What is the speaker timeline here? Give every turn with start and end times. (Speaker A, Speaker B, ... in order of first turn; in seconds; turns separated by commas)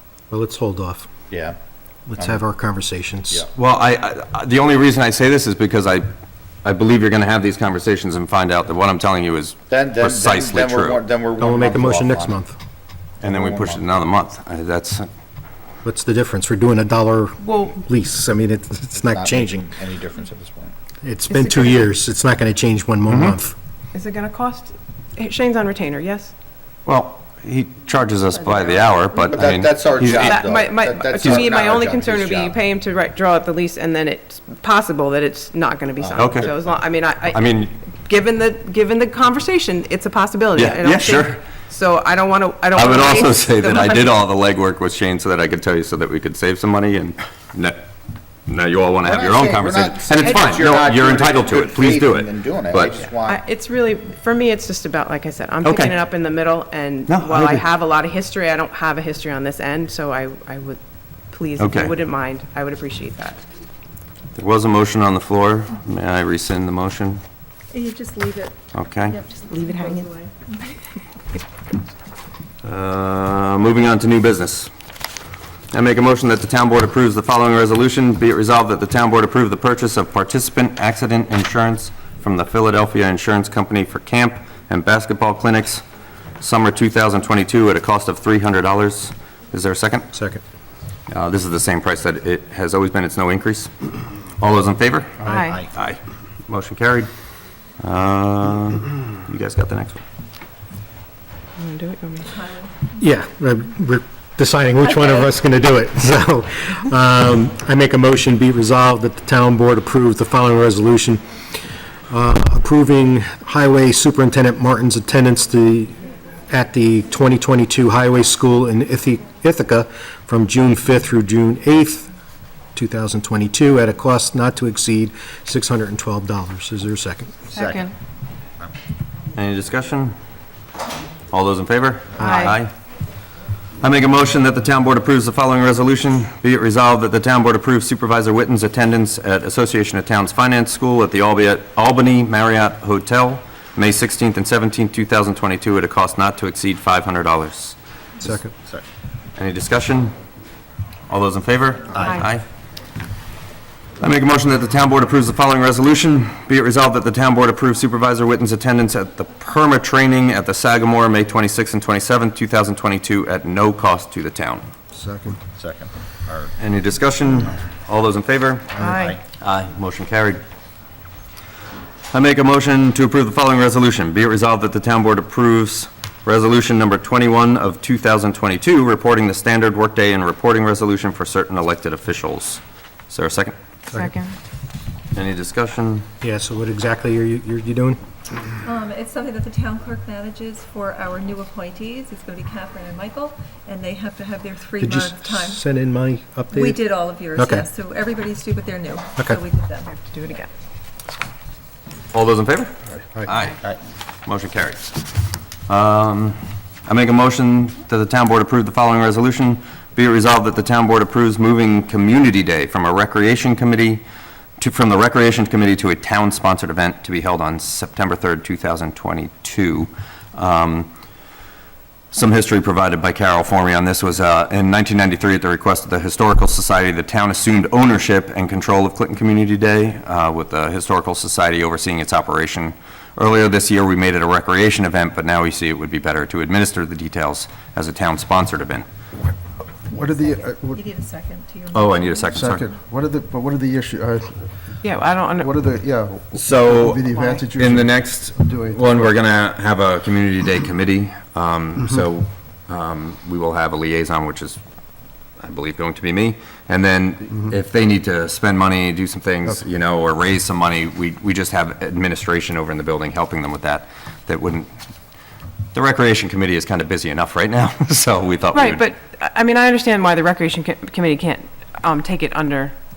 Speaker A: 0.3-1.1, Speaker B: 1.3-1.6, Speaker A: 2.1-3.5, Speaker C: 3.5-6.1, Speaker C: 6.6-11.0, Speaker B: 9.7-12.3, Speaker A: 11.4-12.5, Speaker B: 13.2-13.8, Speaker C: 13.2-15.1, Speaker A: 15.8-19.8, Speaker D: 17.4-17.7, Speaker B: 19.0-20.7, Speaker A: 21.0-23.5, Speaker D: 21.3-21.8, Speaker C: 23.1-23.3, Speaker D: 23.9-26.3, Speaker C: 26.9-30.4, Speaker B: 29.3-32.6, Speaker D: 30.0-44.2, Speaker C: 31.2-31.5, Speaker B: 36.0-36.6, Speaker C: 36.2-36.5, Speaker C: 37.3-37.7, Speaker C: 40.5-41.4, Speaker C: 42.7-47.8, Speaker C: 48.5-53.0, Speaker B: 49.0-53.4, Speaker D: 50.2-50.6, Speaker D: 53.2-63.4, Speaker C: 55.6-55.9, Speaker C: 57.1-57.6, Speaker C: 61.6-61.9, Speaker C: 64.3-67.2, Speaker E: 67.7-70.7, Speaker C: 68.7-69.2, Speaker D: 69.5-70.1, Speaker C: 72.6-74.7, Speaker C: 75.7-85.8, Speaker C: 86.4-90.1, Speaker A: 90.1-90.4, Speaker C: 91.1-93.7, Speaker C: 94.4-97.1, Speaker D: 95.2-95.7, Speaker B: 95.3-95.6, Speaker C: 97.8-100.0, Speaker D: 101.6-102.3, Speaker E: 102.2-102.9, Speaker A: 103.0-111.2, Speaker A: 112.1-115.9, Speaker A: 116.5-122.1, Speaker A: 122.7-127.5, Speaker D: 127.5-127.9, Speaker B: 127.5-127.8, Speaker C: 129.3-130.1, Speaker C: 131.3-132.7, Speaker A: 132.2-132.5, Speaker D: 132.2-132.6, Speaker C: 133.8-147.8, Speaker A: 148.2-148.5, Speaker C: 149.4-150.1, Speaker C: 151.1-152.4, Speaker C: 154.0-164.7, Speaker F: 164.9-165.4, Speaker B: 165.6-166.5, Speaker C: 166.6-168.7, Speaker D: 168.8-169.2, Speaker B: 168.8-169.2, Speaker C: 169.4-170.4, Speaker C: 172.1-183.5, Speaker D: 183.9-184.3, Speaker C: 185.1-186.1, Speaker A: 186.2-188.0, Speaker E: 188.6-195.6, Speaker A: 194.8-197.7, Speaker E: 196.5-200.0, Speaker D: 200.0-200.5, Speaker C: 202.1-203.6, Speaker C: 204.2-204.9, Speaker C: 205.7-214.0, Speaker C: 214.6-220.9, Speaker C: 222.1-238.8, Speaker E: 239.9-242.4, Speaker F: 239.9-240.8, Speaker C: 241.7-242.7, Speaker F: 242.3-244.5, Speaker D: 244.8-245.6, Speaker F: 245.4-249.1, Speaker C: 246.3-254.6, Speaker D: 247.1-247.4, Speaker C: 255.4-264.7, Speaker C: 265.7-268.9, Speaker D: 268.5-272.7